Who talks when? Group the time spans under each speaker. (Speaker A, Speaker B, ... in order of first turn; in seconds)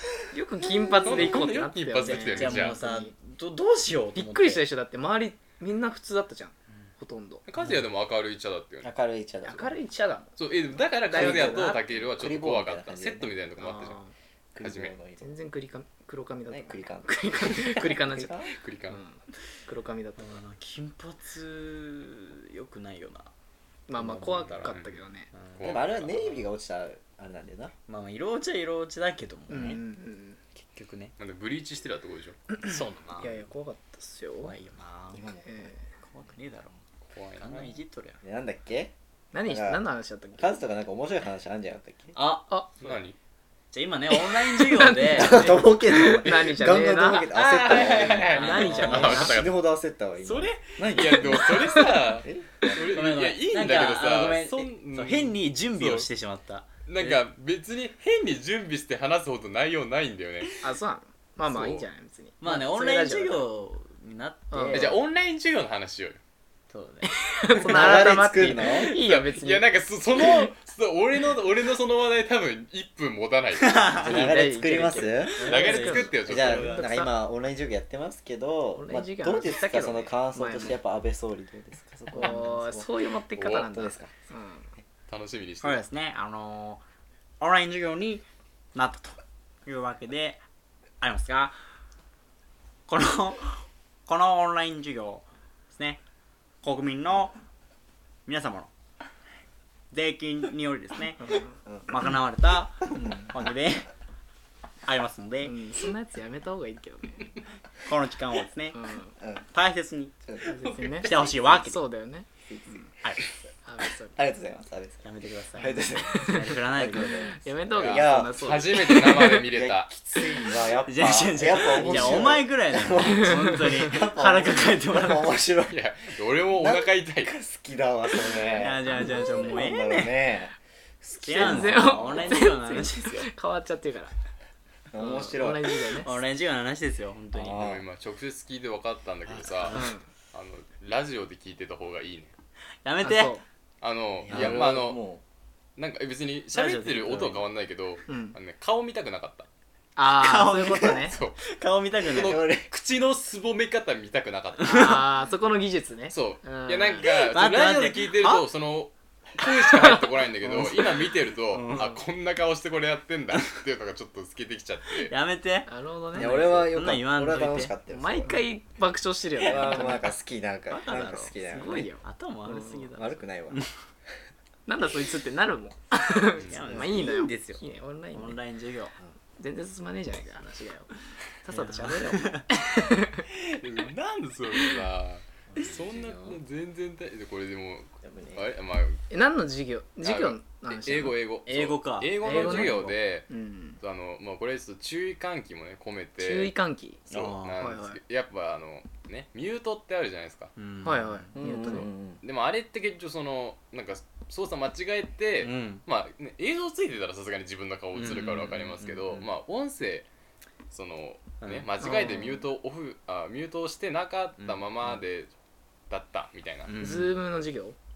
Speaker A: 0.3-3.1, 4.1-7.4, 9.4-10.3, 11.1-11.8, 13.6-14.1, 15.2-18.4, 18.9-20.4, 23.9-25.3, 29.5-30.4, 32.6-34.5, 35.4-35.8, 39.3-40.5, 44.1-47.3, 48.4-49.4, 60.6-63.4, 64.5-65.0, 67.0-69.6, 70.2-70.5, 74.0-77.1, 78.8-80.8, 82.1-84.7, 101.2-101.6, 105.4-107.3, 108.7-109.1, 110.4-112.9, 113.6-114.1, 116.0-116.5, 117.2-119.0, 123.1-123.7, 129.1-129.4, 131.3-134.1, 135.0-136.1, 139.7-140.1, 143.0-143.4, 148.1-148.3, 149.9-151.2, 154.6-157.1, 159.4-160.1, 165.7-166.5, 167.9-170.1, 171.4-172.9, 174.7-178.4, 179.4-180.9, 181.4-183.2, 189.1-191.2, 192.2-193.8, 196.2-197.0, 197.6-198.0, 200.8-201.9, 211.8-212.4, 216.8-217.8
Speaker B: 1.0-2.8, 7.5-8.9, 10.4-14.0, 14.6-14.9, 18.5-19.0, 24.6-24.9, 25.6-26.4, 31.2-32.4, 37.1-37.8, 42.8-43.1, 47.3-49.6, 50.8-56.1, 56.9-60.5, 61.5-61.9, 64.7-66.2, 68.0-74.0, 75.4-76.8, 83.3-83.7, 85.1-85.8, 117.8-119.9, 125.7-127.3, 137.5-142.3, 143.8-145.0, 145.8-149.5, 151.0-151.4, 152.1-155.1, 156.1-165.1, 183.6-189.0, 190.0-193.3, 193.8-196.5, 197.1-200.5, 202.2-210.1, 210.7-215.3, 215.9-216.7
Speaker C: 2.0-4.6, 7.6-7.8, 20.2-23.3, 24.1-24.8, 25.3-25.8, 27.9-29.8, 30.6-31.1, 32.6-33.4, 34.4-35.3, 36.0-36.8, 37.4-38.2, 42.1-43.0, 43.7-45.6, 47.6-49.4, 50.2-50.5, 52.8-57.2, 62.4-65.0, 66.7-67.1, 73.6-74.2, 75.3-76.9, 85.6-86.8, 87.4-90.4, 91.0-91.5, 92.9-96.0, 96.6-97.3, 98.2-98.7, 99.9-101.2, 101.9-103.9, 104.8-105.5, 107.8-108.8, 109.5-110.2, 111.0-111.8, 115.0-117.4, 118.9-119.4, 120.7-125.4, 128.3-130.3, 131.2-133.3, 135.9-137.7, 139.5-139.9, 142.8-143.3, 144.3-144.7, 146.5-147.5, 150.1-152.4, 154.6-155.1, 157.0-158.4, 160.4-160.8, 161.5-162.0, 164.9-167.7, 170.7-171.3, 172.0-173.7, 176.4-177.6, 178.1-178.9, 181.5-182.4, 185.6-186.3, 191.4-192.9, 197.1-197.6, 200.6-201.3, 205.4-205.8, 207.9-209.3, 211.4-211.7, 214.4-215.0, 216.7-217.2
Speaker D: 8.8-9.7, 11.1-13.3, 14.5-15.3, 16.5-18.5, 24.0-24.5, 25.6-27.7, 35.1-35.6, 38.2-38.9, 39.5-39.8, 40.4-42.1, 45.1-52.8, 67.6-69.0, 74.0-82.9, 83.6-84.1, 112.5-112.8, 114.1-115.0, 115.5-118.6, 119.2-125.7, 126.5-132.3, 134.9-135.7, 137.3-137.8, 144.2-145.2, 152.1-152.7, 166.1-168.4, 169.4-171.9, 172.9-173.6, 185.5-185.8, 188.0-188.4, 201.3-202.2